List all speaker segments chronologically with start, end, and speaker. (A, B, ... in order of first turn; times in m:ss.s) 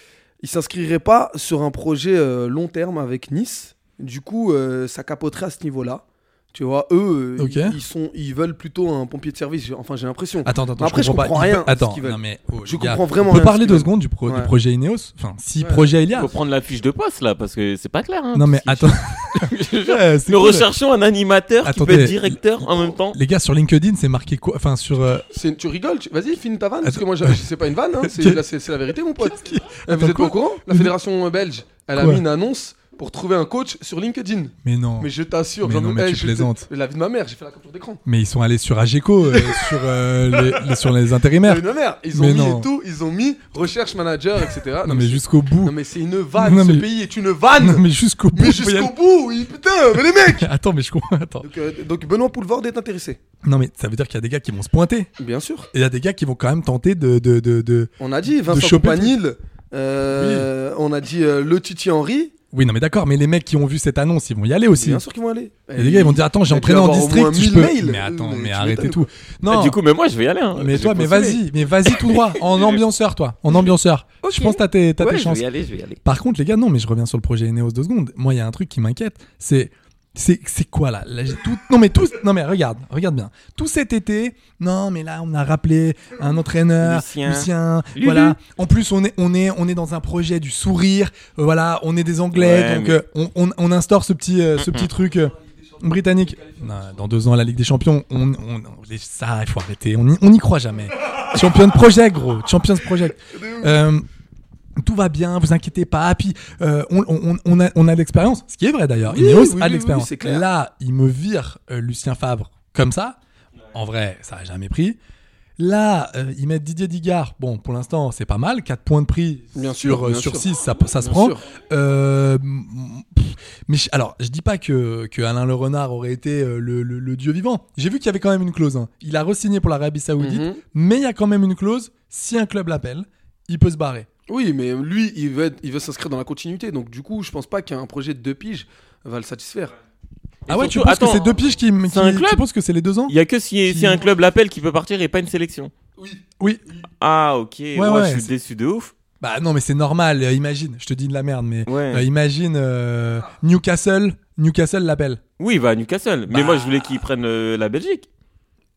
0:00.4-0:14.5 A
0:07.4-0:07.8 B
0:10.4-0:16.3 B
0:15.6-0:15.9 A
0:16.1-0:23.2 C
0:18.3-0:20.7 B
0:21.6-0:22.4 B
0:22.9-0:25.3 B
0:25.3-0:38.0 A
0:26.8-0:27.4 B
0:28.0-0:28.4 B
0:29.2-0:30.9 B
0:32.0-0:32.2 B
0:34.6-0:35.1 B
0:35.6-0:36.7 B
0:38.0-0:42.7 B
0:39.3-0:39.8 A
0:40.3-0:40.6 A
0:41.4-0:50.4 A
0:44.8-0:45.8 B
0:46.3-0:46.9 B
0:47.6-0:48.9 B
0:50.2-0:51.5 B
0:51.4-0:53.2 A
0:53.4-0:55.1 B
0:55.2-0:55.7 A
0:55.7-0:59.2 B
0:58.0-1:02.3 A
1:00.1-1:00.5 B
1:02.5-1:05.0 B
1:04.7-1:09.1 A
1:05.7-1:09.8 B
1:09.5-1:11.4 C
1:10.5-1:15.4 B
1:11.9-1:12.8 C
1:14.3-1:16.0 C
1:16.0-1:44.0 B
1:26.8-1:28.4 C
1:32.3-1:33.0 C
1:34.6-1:34.9 C
1:36.2-1:36.7 A
1:43.3-1:43.7 A
1:44.8-1:53.2 B
1:49.1-1:50.4 A
1:53.7-1:55.0 B
1:55.6-2:14.1 B
1:59.5-2:00.5 A
2:01.0-2:01.4 A
2:10.2-2:10.6 A
2:14.3-2:19.7 A
2:20.5-2:21.3 C
2:20.5-2:23.1 B
2:21.9-2:22.4 C
2:23.1-2:25.7 C
2:23.7-2:24.0 B
2:26.0-2:26.2 A
2:27.0-2:28.9 C
2:27.7-2:28.3 B
2:29.2-2:35.2 B
2:31.6-2:32.0 C
2:35.4-2:38.1 C
2:36.3-2:37.0 B